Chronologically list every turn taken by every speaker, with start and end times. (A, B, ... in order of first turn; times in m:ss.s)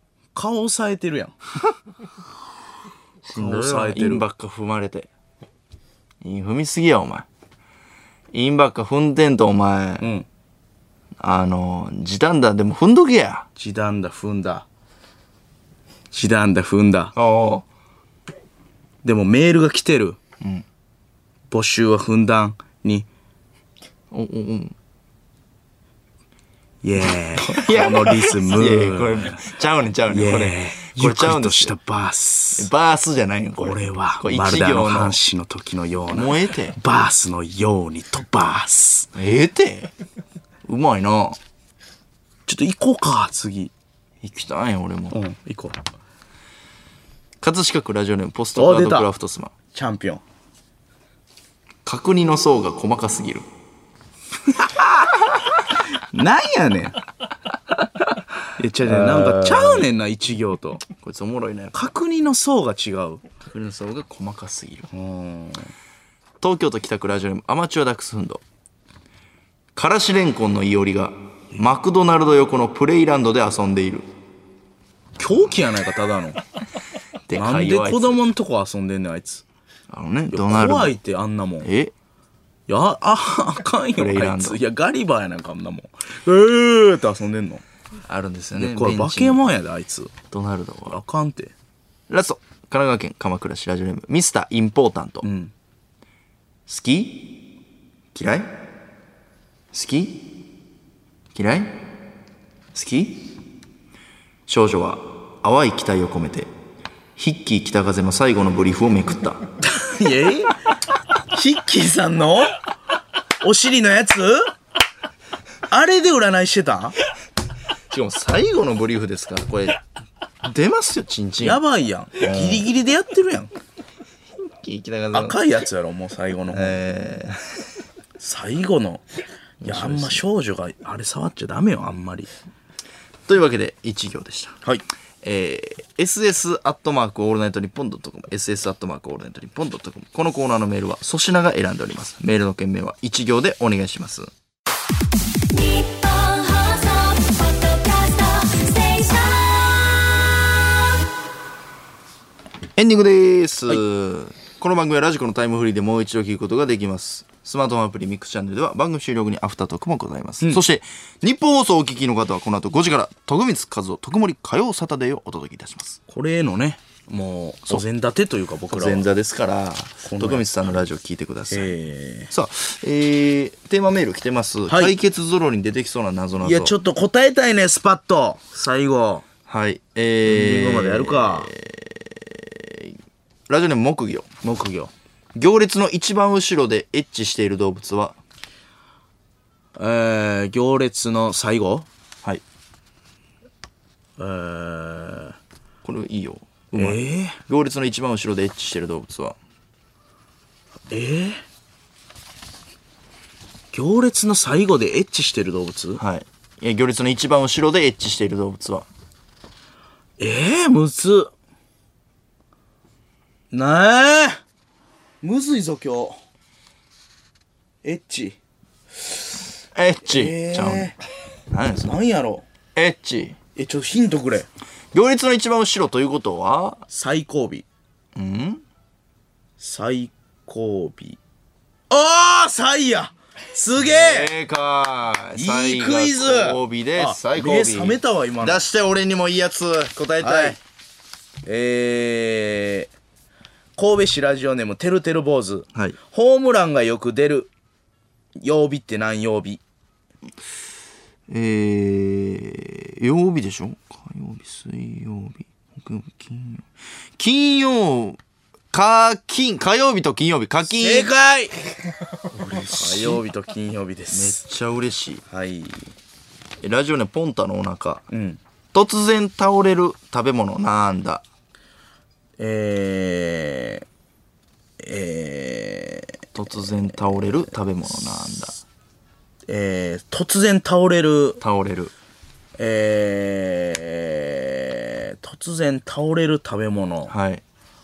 0:00.3-0:01.3 A
0:03.2-0:05.1 B
0:03.3-0:04.3 A
0:06.2-0:07.3 B
0:08.3-0:10.1 B
0:10.0-0:10.3 A
0:11.2-0:13.4 B
0:13.6-0:14.6 A
0:16.1-0:17.1 A
0:17.1-0:17.6 B
0:19.0-0:20.2 A
0:21.5-0:23.1 A
0:24.1-0:24.7 B
0:26.8-0:29.4 A
0:27.4-0:31.8 B
0:30.1-0:32.7 A
0:32.6-0:35.2 B
0:33.6-0:39.1 A
0:36.1-0:36.8 B
0:39.1-0:39.9 B
0:40.6-0:41.4 B
0:42.4-0:43.7 A
0:44.2-0:45.2 B
0:45.1-0:45.8 A
0:47.4-0:49.5 B
0:48.5-0:49.1 A
0:49.7-0:50.2 A
0:51.8-0:53.5 B
0:54.6-0:54.8 A
0:56.0-0:57.0 A
0:58.6-1:00.8 A
0:58.8-0:59.8 B
1:00.9-1:01.8 B
1:01.7-1:03.2 A
1:03.4-1:04.9 B
1:04.9-1:05.7 A
1:06.4-1:08.4 B
1:09.7-1:14.1 B
1:15.2-1:16.4 A
1:17.2-1:18.2 B
1:17.3-1:19.4 A
1:19.9-1:21.0 B
1:20.3-1:21.7 A
1:21.6-1:21.9 B
1:22.7-1:27.6 A
1:24.0-1:24.6 B
1:28.1-1:29.4 B
1:28.5-1:30.1 A
1:30.3-1:31.0 B
1:30.9-1:31.5 A
1:32.1-1:35.3 B
1:35.2-1:35.5 A
1:36.7-1:37.4 B
1:38.1-1:38.6 B
1:39.7-1:40.4 B
1:41.3-1:41.8 B
1:42.7-1:43.3 B
1:44.5-1:46.5 B
1:47.2-1:49.4 B
1:49.6-1:50.5 A
1:51.3-1:52.6 A
1:53.4-1:54.5 A
1:55.7-1:57.0 A
1:57.9-1:59.8 B
2:00.4-2:01.6 B
2:01.4-2:03.5 A
2:02.2-2:02.6 B
2:04.4-2:05.4 B
2:05.1-2:06.8 A
2:06.5-2:07.4 B
2:08.2-2:09.0 A
2:09.6-2:10.2 B
2:09.6-2:12.3 A
2:13.3-2:14.6 B
2:15.2-2:24.3 B
2:25.5-2:30.6 C
2:32.8-2:46.0 B
2:46.1-2:49.1 A
2:48.7-2:51.7 B
2:50.0-2:50.7 A
2:51.5-2:52.3 A
2:52.3-2:56.7 B
2:54.7-2:54.9 A
2:56.4-2:59.2 A
2:59.5-3:02.9 B
3:00.2-3:01.5 A
3:03.5-3:04.3 B
3:04.4-3:04.9 A
3:05.3-3:08.2 B
3:09.8-3:11.9 A
3:14.2-3:15.4 A
3:15.8-3:19.4 B
3:16.7-3:17.4 A
3:20.9-3:21.4 A
3:23.7-3:26.0 A
3:26.0-3:28.9 B
3:30.2-3:31.3 A
3:33.5-3:34.4 A
3:35.2-3:36.2 A
3:37.8-3:38.4 A
3:39.7-3:40.9 B
3:40.0-3:41.0 A
3:41.5-3:41.9 B
3:41.8-3:42.4 A
3:42.7-3:43.4 B
3:43.6-3:44.5 A
3:44.9-3:46.8 B
3:46.9-3:47.6 A
3:48.1-3:48.6 B
3:49.6-3:51.2 A
3:51.9-3:54.3 A
3:53.8-4:00.6 B
3:55.3-3:58.6 A
4:00.2-4:00.6 A
4:01.4-4:02.9 A
4:03.8-4:07.5 A
4:08.4-4:09.6 A
4:11.3-4:18.2 B
4:18.7-4:21.1 B
4:20.7-4:21.6 A
4:22.3-4:23.2 B
4:22.6-4:24.4 A
4:24.1-4:25.2 B
4:25.3-4:25.9 A
4:26.6-4:28.0 B
4:28.1-4:28.4 A
4:28.7-4:31.2 B
4:32.4-4:33.8 A
4:34.8-4:36.1 A
4:36.3-4:38.6 B
4:39.4-4:41.4 A
4:41.4-4:41.9 B
4:42.6-4:47.1 A
4:47.1-4:47.4 B